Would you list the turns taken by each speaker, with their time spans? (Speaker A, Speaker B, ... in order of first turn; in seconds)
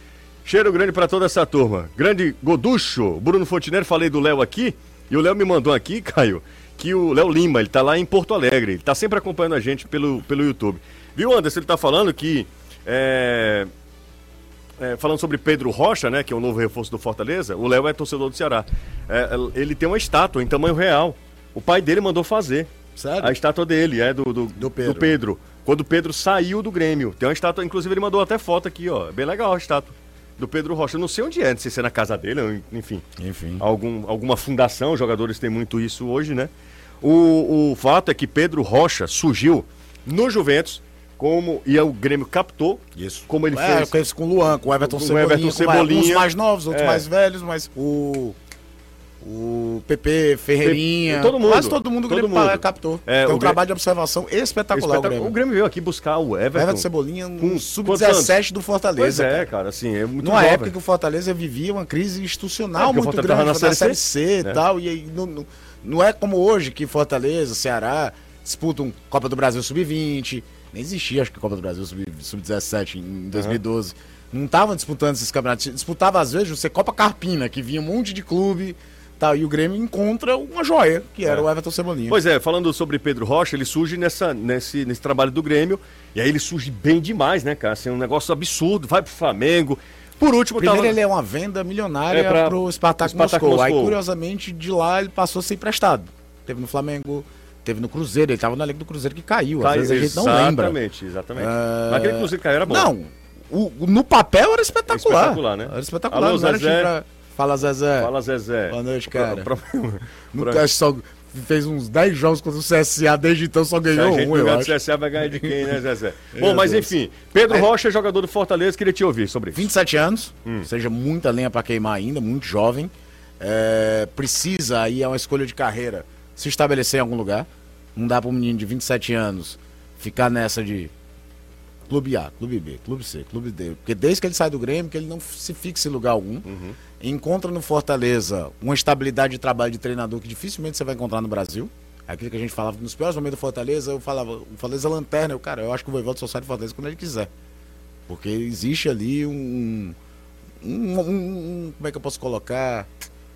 Speaker A: 0.5-13.7, 14.8-33.0, 33.6-36.5, 37.0-44.0, 44.9-47.1, 50.6-53.6, 54.7-56.9, 57.4-58.4, 59.0-60.7, 62.8-64.6, 73.3-73.6, 82.1-91.0, 92.1-94.0, 99.6-102.9, 104.9-106.9, 108.0-110.6, 113.9-119.7, 136.5-136.8
Speaker B: 23.0-23.4, 24.6-25.2, 33.2-33.6, 43.0-48.4, 49.2-55.4, 56.5-59.5, 60.2-82.2, 90.6-100.8, 101.3-108.1, 108.7-109.5, 110.3-115.6, 116.3-117.0, 119.5-130.9, 131.9-136.5, 137.0-147.3, 148.1-150.0, 150.6-152.9